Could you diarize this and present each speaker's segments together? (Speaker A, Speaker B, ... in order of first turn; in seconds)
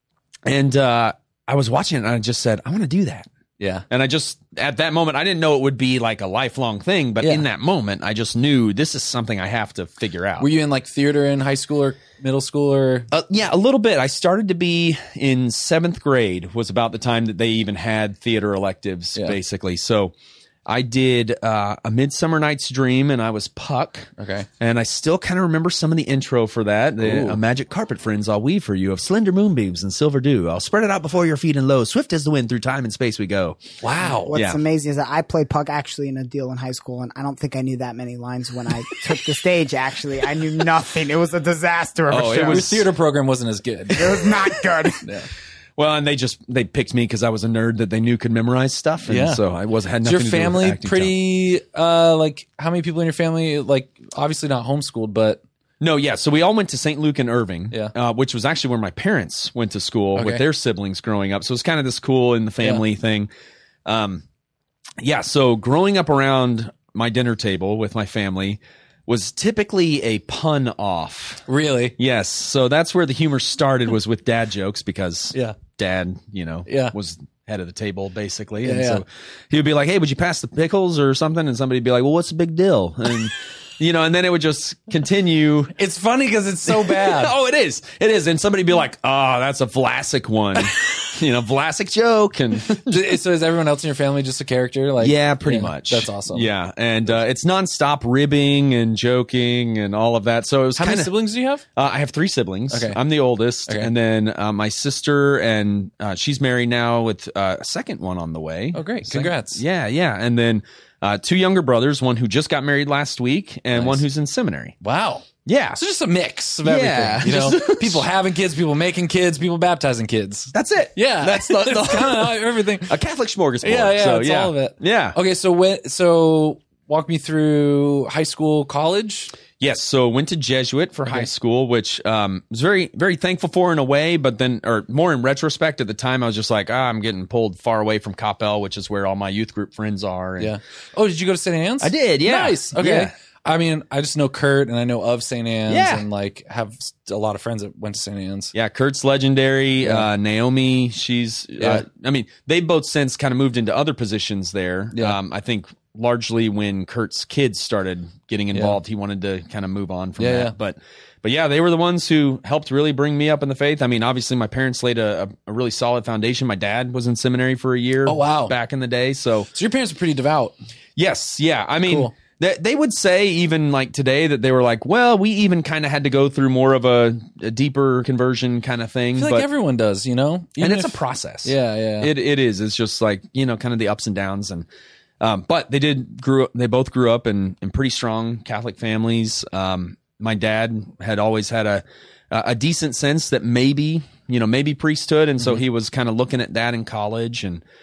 Speaker A: 0.5-3.3, 3.9-10.5, 13.1-20.1, 20.7-33.6, 34.3-34.6, 42.1-42.9, 45.8-51.1, 55.8-63.3, 63.9-64.2, 65.0-71.4, 72.0-85.8, 86.7-93.2, 95.0-101.1, 101.7-114.8, 115.5-115.8, 116.6-118.1, 120.5-125.2, 129.6-140.6, 141.8-143.1, 145.7-146.1, 148.5-169.5, 171.0-179.5, 180.6-184.7, 185.2-197.6
Speaker B: 3.6-3.9, 10.4-13.1, 24.2-24.5, 27.0-27.4, 33.8-34.4, 42.4-44.5, 45.0-45.3, 49.1-49.4, 50.0-55.4, 60.1-60.4, 71.5-72.0, 76.7-77.0, 78.6-79.0, 85.8-87.3, 92.9-96.5, 100.8-101.6, 102.7-103.0, 108.7-109.6, 113.7-114.0, 114.8-123.0, 123.6-129.3, 140.4-148.5, 151.6-151.8, 154.9-155.2, 160.2-160.5, 168.1-168.5, 169.5-170.6, 171.8-172.2, 179.2-182.1
Speaker C: 34.3-42.8, 43.9-45.0